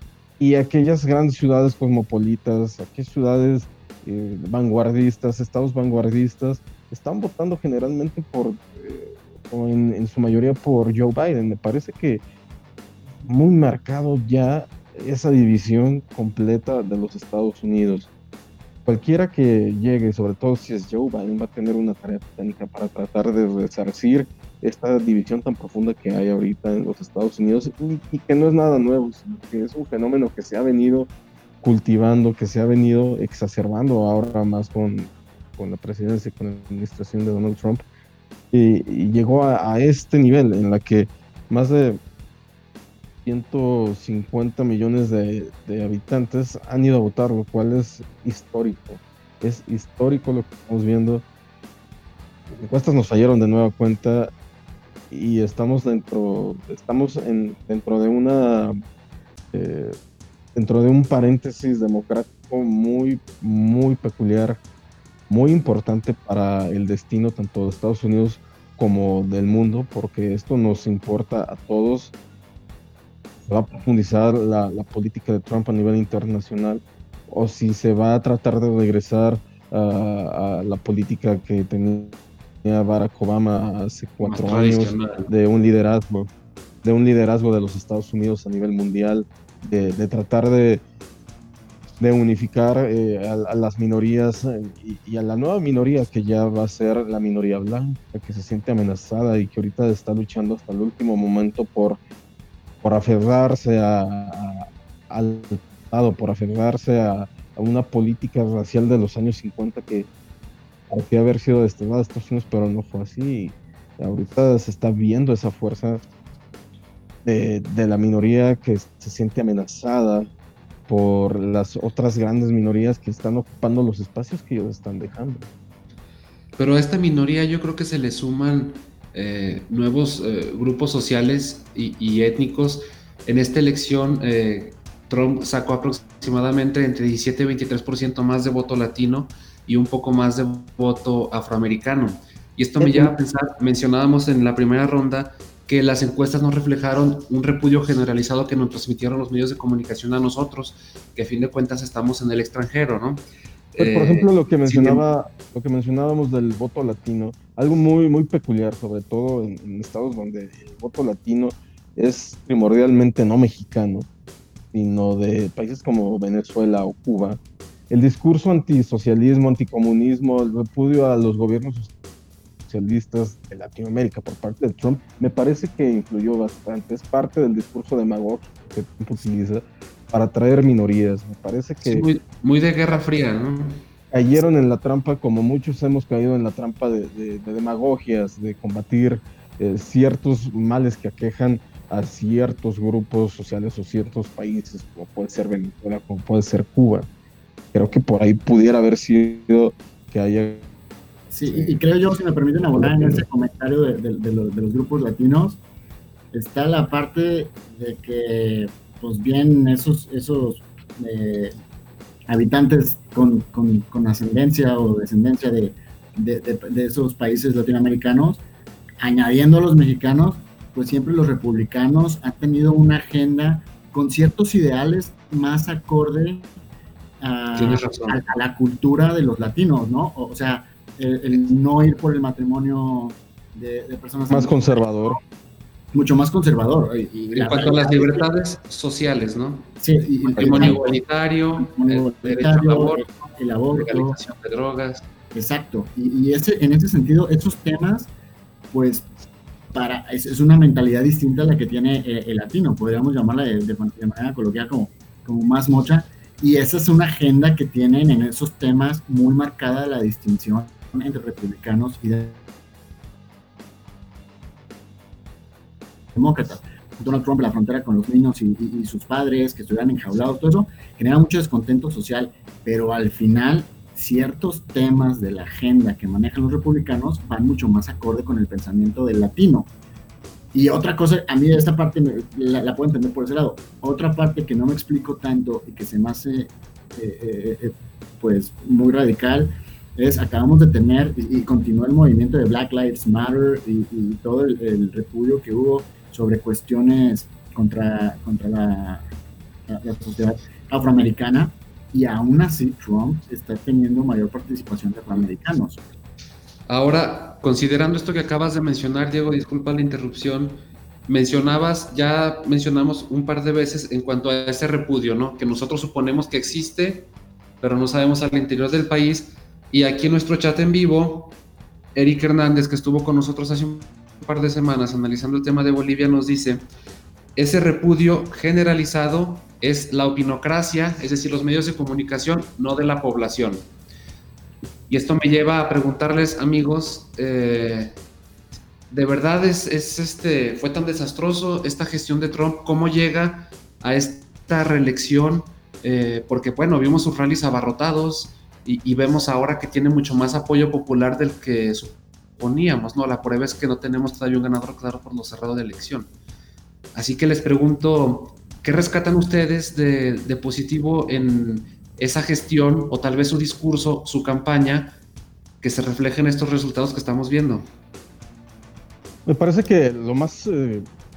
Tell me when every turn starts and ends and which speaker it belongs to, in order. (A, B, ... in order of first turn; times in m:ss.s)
0:00.4-0:12.2 A
0:13.2-0:18.1 A
0:18.8-0:31.1 A
0:31.6-0:37.8 A
0:38.5-0:42.0 A
0:43.2-0:51.2 A
0:52.5-0:54.3 A
0:55.1-0:58.7 A
0:59.5-1:00.0 A
1:00.5-1:04.6 A
1:05.3-1:12.1 A
1:13.4-1:26.3 A
1:24.2-1:25.3 B
1:26.8-1:30.8 A
1:32.0-1:42.0 A
1:42.8-1:50.1 A
1:50.9-1:56.0 A
1:57.2-2:00.3 A
2:00.9-2:05.5 A
2:06.6-2:35.0 B
2:22.8-2:23.2 A
2:33.8-2:44.1 A
2:44.7-2:47.4 A
2:47.9-2:51.9 A
2:52.7-3:02.1 A
3:01.8-3:03.8 B
3:04.1-3:17.1 A
3:17.7-3:20.7 A
3:21.3-3:25.6 C
3:21.5-3:21.8 A
3:22.8-3:23.2 A
3:26.3-3:31.5 C
3:32.3-3:38.4 C
3:39.0-3:46.5 C
3:47.2-3:55.2 C
3:47.6-3:48.2 B
3:54.3-3:55.2 A
3:55.9-3:58.3 C
3:57.3-3:59.7 B
3:59.8-4:00.9 C
4:00.2-4:03.1 B
4:01.6-4:04.2 C
4:03.7-4:05.0 B
4:05.3-4:08.1 C
4:08.7-4:09.1 C
4:09.7-4:22.4 C
4:26.1-4:39.7 C
4:40.5-4:59.1 C
4:59.7-5:05.8 C
5:06.7-5:21.4 B
5:21.9-5:26.7 B
5:27.4-5:33.6 B
5:34.9-5:38.0 B
5:38.9-5:56.1 B
5:56.9-6:05.0 B
6:05.6-6:07.7 B
6:09.2-6:10.8 A